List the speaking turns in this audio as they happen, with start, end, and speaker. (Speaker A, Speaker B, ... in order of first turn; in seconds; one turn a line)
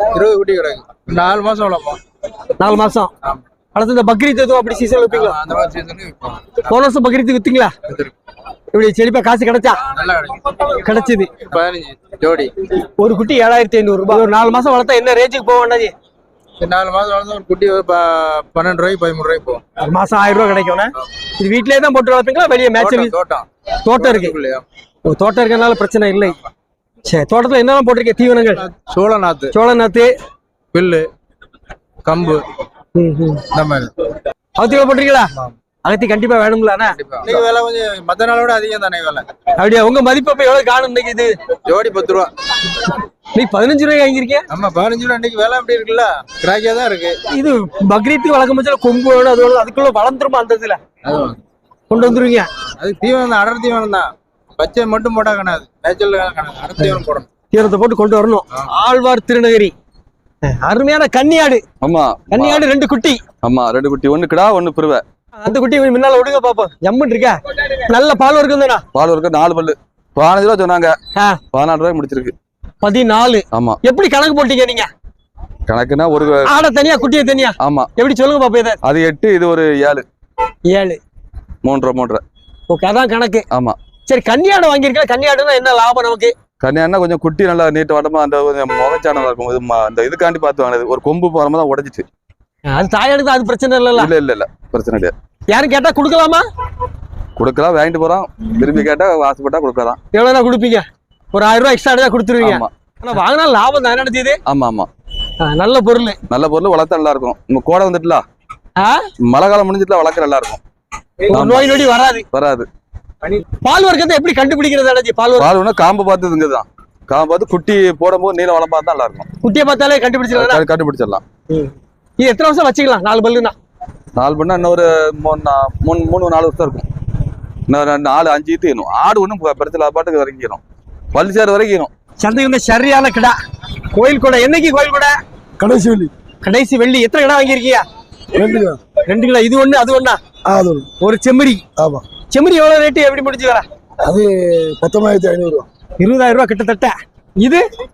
Speaker A: 0.1-2.0
Speaker B: 2.6-3.1
Speaker B: 3.8-5.4
Speaker A: 5.1-6.6
Speaker B: 6.7-7.7
Speaker B: 8.7-9.8
Speaker A: 9.9-10.5
Speaker B: 10.8-11.3
Speaker A: 11.5-12.5
Speaker B: 13.0-15.9
Speaker A: 16.6-19.6
Speaker B: 19.8-23.1
Speaker A: 22.8-24.6
Speaker B: 23.8-24.4
Speaker B: 25.1-26.4
Speaker B: 27.1-28.7
Speaker A: 28.6-29.5
Speaker B: 29.5-30.1
Speaker A: 30.7-31.1
Speaker A: 32.0-32.5
Speaker B: 33.0-33.4
Speaker A: 33.5-33.9
Speaker B: 34.6-35.3
Speaker B: 35.8-37.4
Speaker A: 37.0-39.3
Speaker B: 39.6-41.3
Speaker A: 41.7-42.3
Speaker B: 43.4-44.5
Speaker A: 44.5-47.2
Speaker B: 47.3-50.8
Speaker A: 51.0-51.4
Speaker B: 51.9-52.5
Speaker A: 52.8-57.3
Speaker B: 56.8-59.7
Speaker B: 60.5-61.6
Speaker C: 61.8-62.6
Speaker B: 62.3-63.2
Speaker C: 63.4-65.0
Speaker B: 65.4-68.8
Speaker C: 68.9-71.0
Speaker C: 71.5-72.3
Speaker B: 72.8-74.9
Speaker C: 73.5-73.8
Speaker C: 75.7-76.5
Speaker B: 76.5-78.8
Speaker C: 77.6-77.9
Speaker C: 78.8-80.0
Speaker B: 80.7-81.0
Speaker C: 81.7-82.2
Speaker B: 82.7-83.5
Speaker C: 83.5-83.8
Speaker B: 84.1-86.3
Speaker C: 86.6-92.0
Speaker B: 92.7-94.1
Speaker C: 94.0-95.1
Speaker B: 95.5-96.4
Speaker C: 97.4-100.0
Speaker B: 100.1-104.4
Speaker C: 102.4-102.7
Speaker C: 104.5-104.9
Speaker B: 105.4-106.2
Speaker C: 106.3-108.2
Speaker C: 109.3-110.6
Speaker B: 111.3-112.2
Speaker C: 111.3-111.8
Speaker C: 112.3-112.7
Speaker B: 113.6-115.5
Speaker C: 115.4-119.3
Speaker B: 119.4-120.6
Speaker C: 120.3-121.2
Speaker B: 121.5-123.5
Speaker C: 124.2-126.8
Speaker C: 127.7-130.6
Speaker C: 131.1-131.9
Speaker B: 132.2-133.3
Speaker B: 133.9-135.2
Speaker D: 135.6-136.1
Speaker B: 136.4-137.8
Speaker D: 138.4-138.8
Speaker B: 139.1-140.2
Speaker D: 140.4-140.9
Speaker B: 141.0-141.6
Speaker D: 141.8-142.0
Speaker B: 142.3-143.6
Speaker D: 144.0-145.7
Speaker B: 146.0-147.6